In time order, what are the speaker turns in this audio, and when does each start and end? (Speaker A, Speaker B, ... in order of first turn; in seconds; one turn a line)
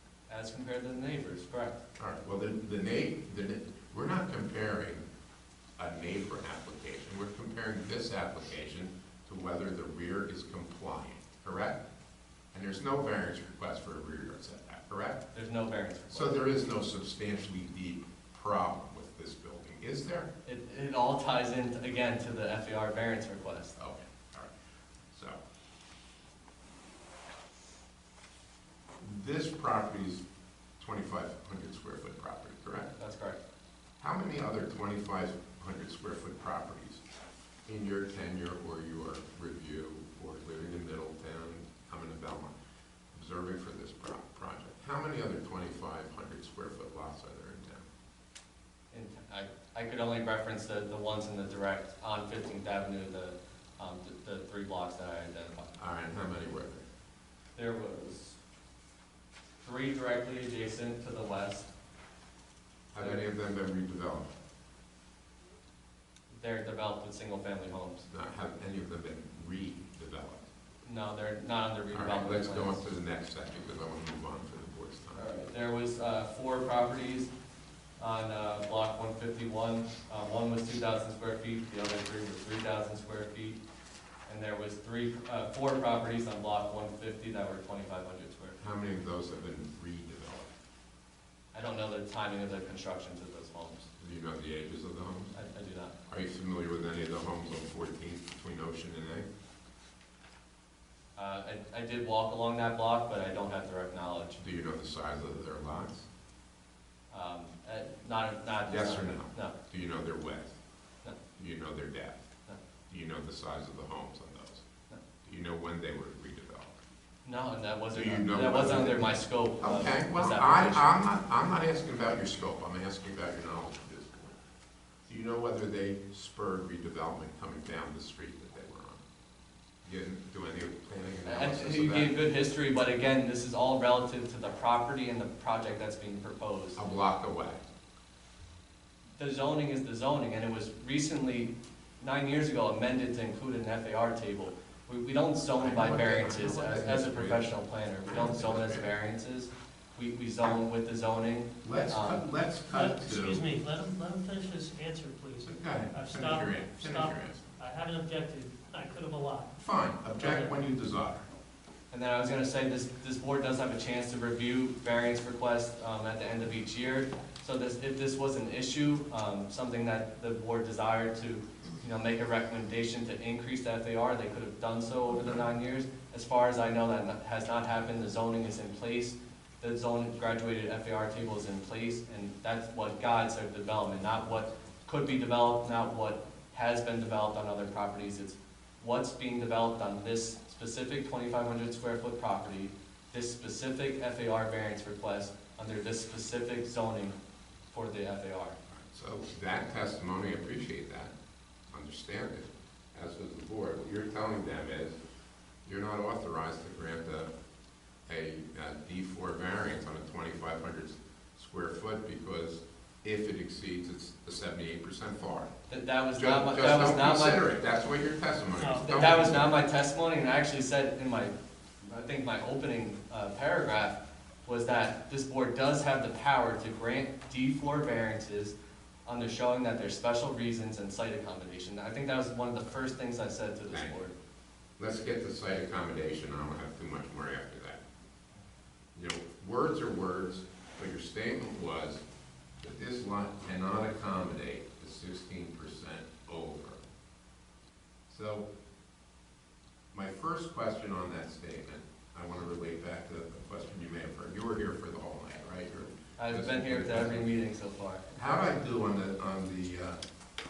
Speaker A: 0.3-1.8
Speaker B: 2.0-5.0
Speaker B: 5.8-11.9
Speaker B: 12.5-15.3
Speaker A: 15.3-16.4
Speaker B: 16.1-20.3
Speaker A: 20.4-23.8
Speaker B: 23.8-24.5
Speaker B: 25.1-25.4
Speaker B: 29.0-30.2
Speaker B: 30.8-32.9
Speaker A: 33.0-33.4
Speaker B: 34.0-37.0
Speaker B: 37.6-42.5
Speaker B: 43.1-47.9
Speaker A: 48.9-55.7
Speaker B: 55.8-56.8
Speaker A: 57.5-58.4
Speaker A: 59.6-61.7
Speaker B: 62.9-64.3
Speaker A: 62.9-63.2
Speaker A: 66.3-68.1
Speaker B: 68.1-70.5
Speaker A: 70.8-72.8
Speaker B: 71.9-75.3
Speaker A: 75.1-77.3
Speaker A: 78.0-83.6
Speaker A: 84.3-88.6
Speaker B: 88.6-90.5
Speaker A: 91.5-93.9
Speaker B: 94.0-95.3
Speaker A: 95.3-96.0
Speaker B: 96.1-99.3
Speaker A: 101.2-104.4
Speaker B: 104.4-106.1
Speaker A: 107.1-109.5
Speaker B: 108.7-110.6
Speaker B: 111.3-112.3
Speaker B: 112.9-114.7
Speaker B: 115.2-116.7
Speaker A: 117.2-120.9
Speaker B: 117.9-124.3
Speaker B: 125.0-129.0
Speaker B: 129.8-132.1
Speaker A: 131.2-136.8
Speaker B: 136.7-137.6
Speaker A: 139.2-152.2
Speaker B: 145.5-148.9
Speaker B: 151.6-153.4
Speaker C: 152.7-159.5
Speaker B: 155.4-157.4
Speaker B: 159.6-161.2
Speaker C: 160.2-160.5
Speaker A: 161.9-197.2
Speaker A: 197.7-198.6
Speaker B: 198.8-201.1
Speaker B: 201.7-205.0
Speaker B: 205.6-207.3
Speaker B: 208.1-215.5
Speaker A: 215.7-217.5
Speaker B: 216.1-219.5
Speaker C: 218.6-219.0
Speaker A: 218.9-228.5
Speaker A: 229.1-234.1
Speaker B: 233.7-234.0
Speaker B: 234.8-237.8
Speaker B: 238.9-242.0
Speaker B: 242.6-246.8
Speaker B: 248.1-248.4
Speaker B: 249.9-257.3
Speaker A: 256.2-258.0
Speaker B: 258.1-260.0